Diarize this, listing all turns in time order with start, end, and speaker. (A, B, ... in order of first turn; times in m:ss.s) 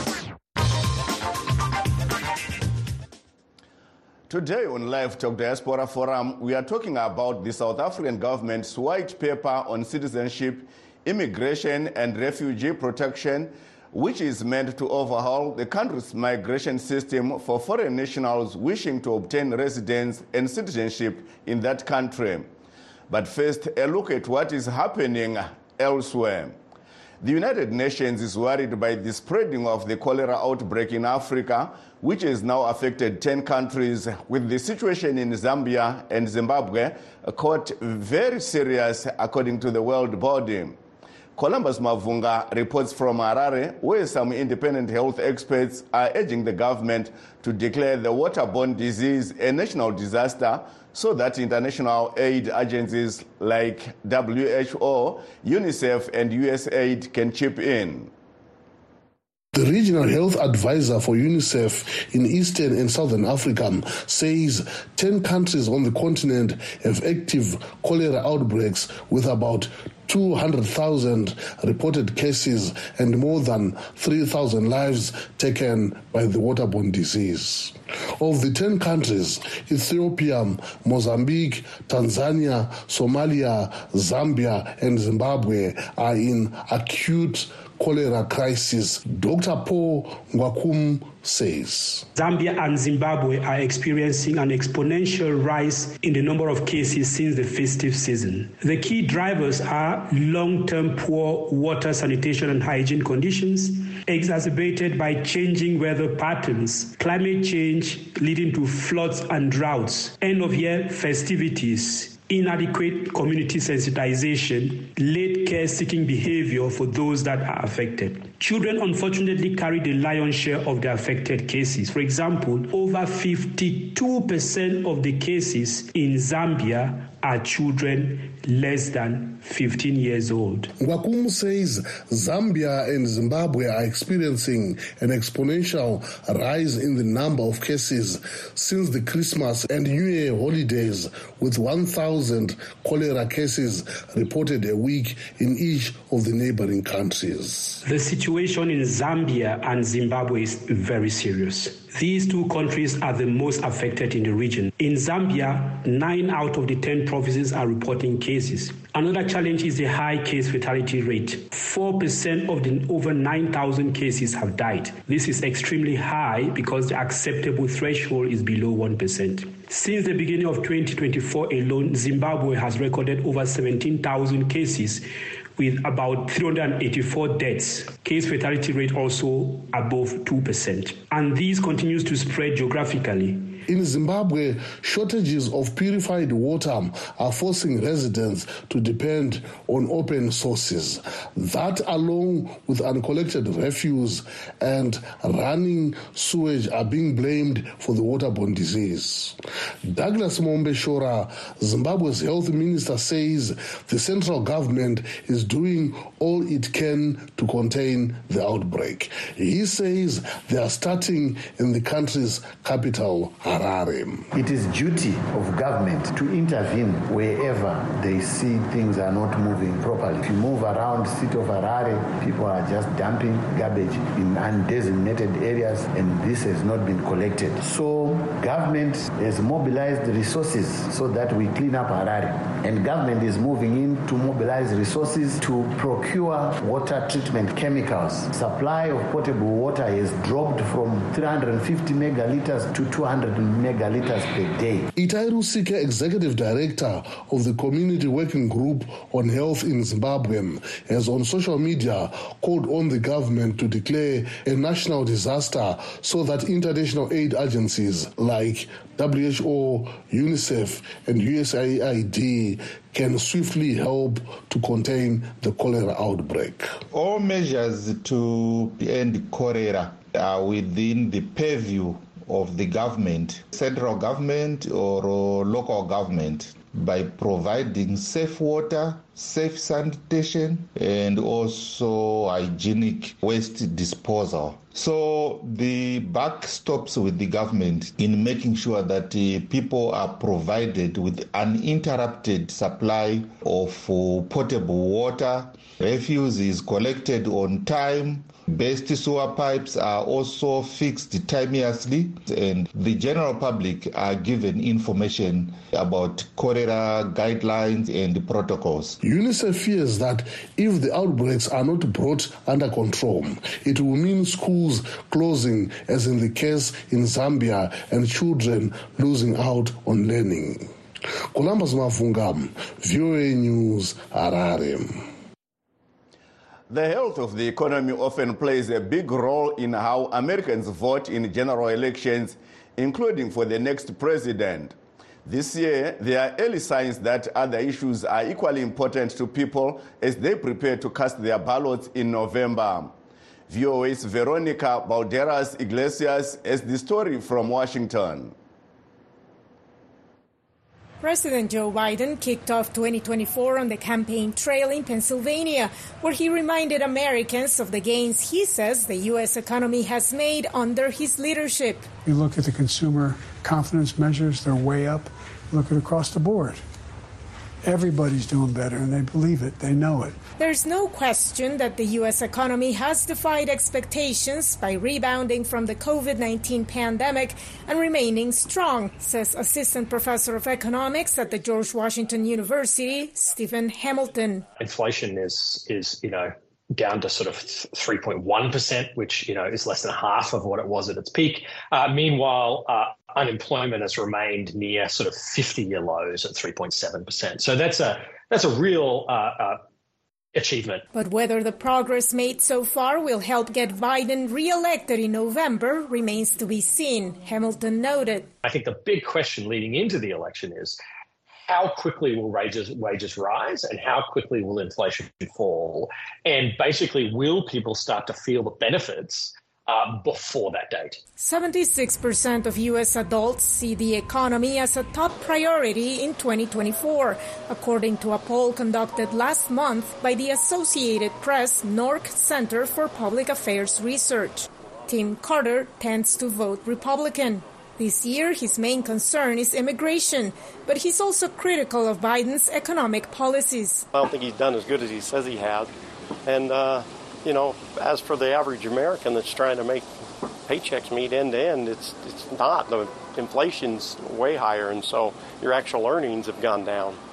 0:04.3-0:22.5 A
0:23.1-0:26.6 A
0:27.2-0:40.8 A
0:41.4-0:58.1 A
0:59.5-1:32.1 B
1:32.2-2:10.7 C
2:10.8-2:27.8 B
2:27.8-3:03.6 C
3:03.7-3:34.3 B
3:34.3-4:04.9 D
4:05.0-4:26.8 B
4:26.9-5:09.0 E
5:09.0-5:20.7 B
5:21.3-5:25.0 B
5:26.7-5:42.9 A
5:43.5-5:48.3 A
5:51.0-6:01.9 F
6:02.0-6:06.6 G
6:07.6-6:10.2 G
6:10.4-6:24.4 F
6:24.6-6:39.6 H
6:40.3-6:40.8 H
6:40.9-6:48.3 F
6:48.4-6:50.8 H
6:51.4-7:01.0 H
7:01.2-7:23.9 F
7:23.9-7:25.7 I
7:26.2-7:29.9 I
7:30.4-7:37.0 I